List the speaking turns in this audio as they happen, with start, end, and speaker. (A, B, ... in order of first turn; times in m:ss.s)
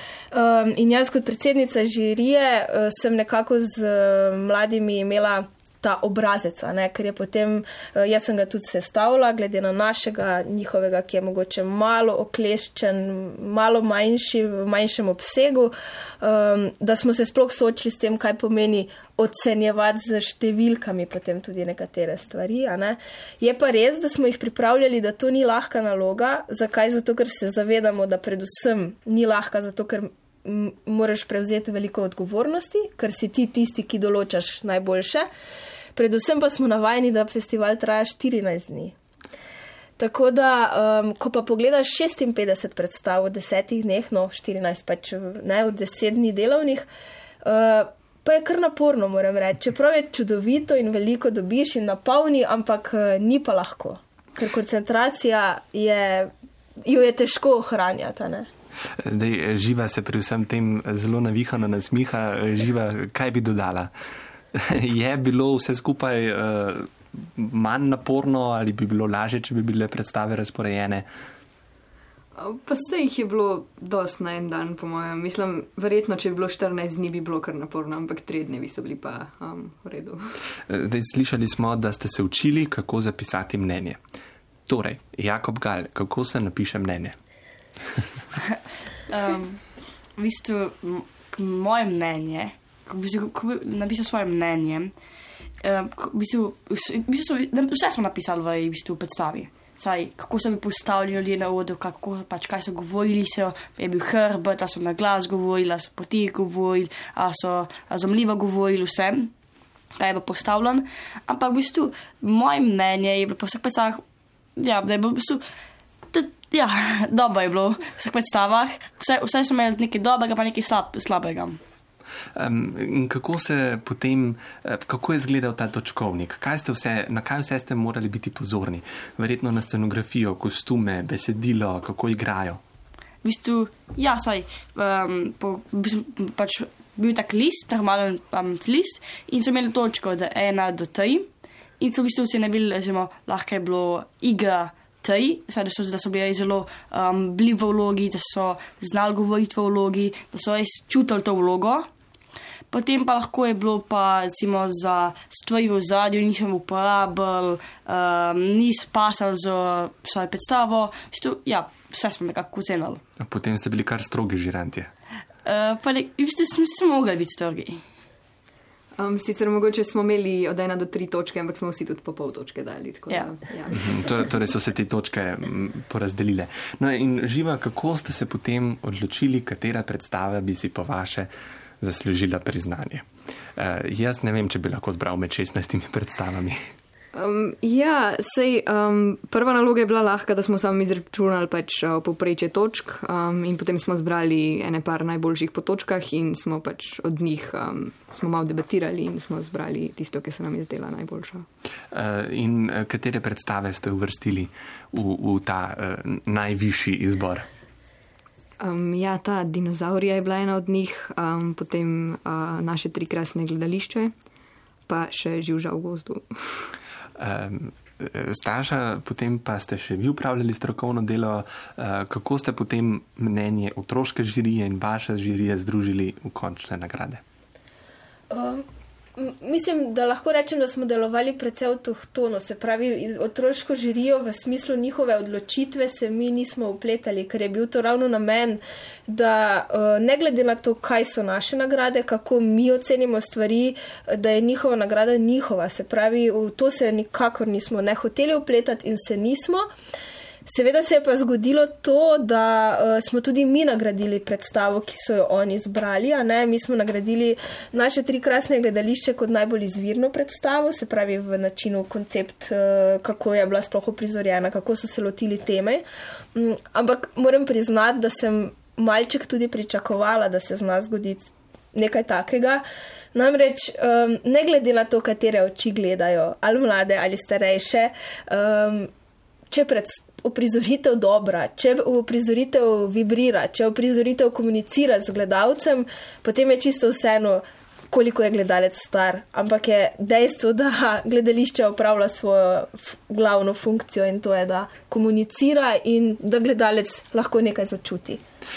0:00.3-0:35.3 A
0:35.9-0:38.9 A
0:40.0-0:46.8 A
0:47.4-0:56.3 A
0:56.8-0:58.5 A
0:59.0-1:03.9 B
1:04.5-1:11.1 B
1:12.4-1:20.2 C
1:20.7-1:24.0 B
1:24.7-1:27.2 B
1:29.1-1:29.6 D
1:30.2-1:34.9 D
1:35.6-1:49.3 D
1:50.0-1:54.0 D
1:54.6-1:55.4 D
1:56.1-2:01.6 D
2:02.3-2:12.6 B
2:13.2-2:21.3 D
2:21.8-2:31.9 D
2:32.7-2:43.0 D
2:43.2-2:44.9 B
2:45.4-2:47.8 D
2:49.0-2:53.8 C
2:53.7-3:01.3 B
3:01.8-3:06.7 B
3:07.1-3:21.4 C
3:21.9-3:27.5 B
3:28.6-3:34.1 C
3:34.9-3:36.7 C
3:37.2-3:47.2 B
3:48.3-3:48.6 A
3:49.2-4:09.7 A
4:10.4-4:25.8 A
4:26.3-4:38.9 A
4:39.5-4:58.2 A